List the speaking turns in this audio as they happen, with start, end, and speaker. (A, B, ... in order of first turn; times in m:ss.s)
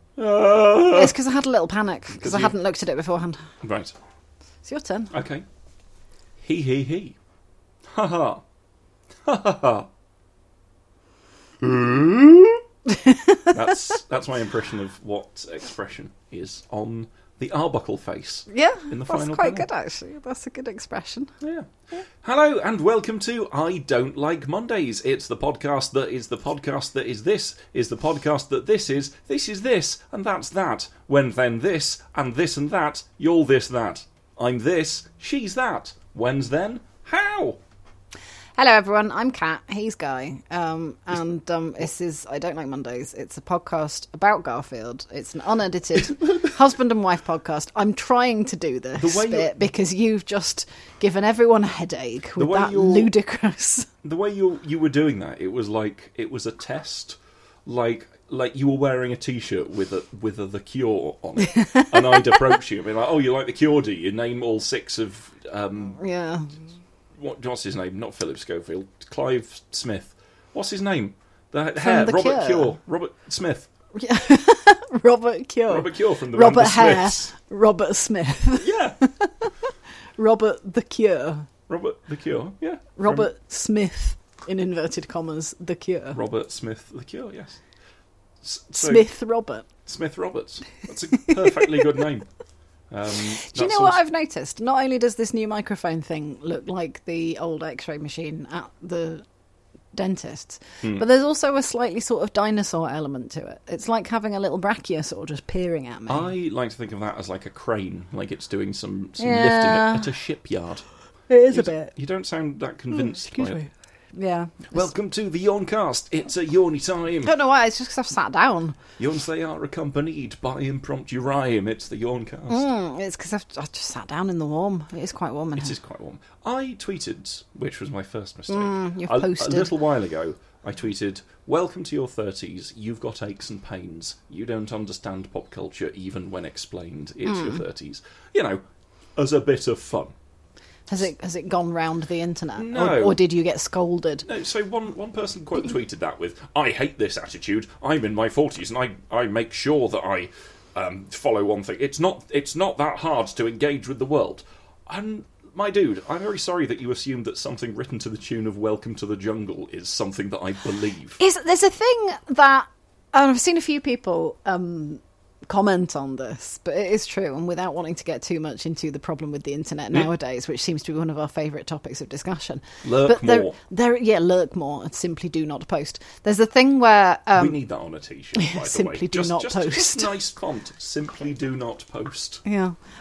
0:00.2-0:01.2 A
0:00.9-0:03.5 B
0:02.2-0:02.5 A
0:03.6-0:03.9 A
0:04.6-0:05.1 B
0:05.1-0:05.4 A
0:06.4-0:07.2 A
0:07.8-0:08.4 A
0:09.2-0:09.9 A
0:11.6-0:12.6 A
0:12.9-0:13.8 B
0:13.5-0:19.7 A
0:18.5-0:21.3 B
0:21.4-0:21.7 A
0:22.2-0:37.6 A
0:38.6-0:53.9 B
0:49.0-0:49.6 A
0:52.4-0:53.1 A
0:54.0-1:06.0 A
1:01.4-1:02.4 B
1:06.0-1:06.5 B
1:07.2-1:13.7 A
1:11.8-1:12.8 B
1:13.9-1:19.5 B
1:15.7-1:17.3 A
1:18.6-1:19.0 A
1:20.2-1:21.5 B
1:21.7-1:23.3 A
1:23.0-1:26.2 B
1:26.1-1:27.6 A
1:28.4-1:29.1 A
1:28.7-1:29.6 B
1:29.8-1:32.3 A
1:31.2-1:31.9 B
1:32.9-1:34.0 A
1:33.4-1:39.2 B
1:39.9-1:46.3 B
1:46.1-1:50.8 A
1:49.2-1:50.1 B
1:51.3-1:51.9 B
1:51.5-1:53.6 A
1:52.9-1:54.9 B
1:54.7-1:57.3 A
1:57.2-1:58.8 B
1:59.0-2:02.7 A
2:02.5-2:05.7 B
2:05.6-2:18.6 A
2:08.5-2:09.7 B
2:17.3-2:17.6 B
2:19.2-2:20.1 A
2:20.9-2:24.2 B
2:22.6-2:23.2 A
2:24.2-2:41.2 A
2:41.2-2:57.6 B
2:52.8-2:53.6 A
2:57.3-3:02.4 A
2:58.3-3:00.2 B
3:02.4-3:02.8 B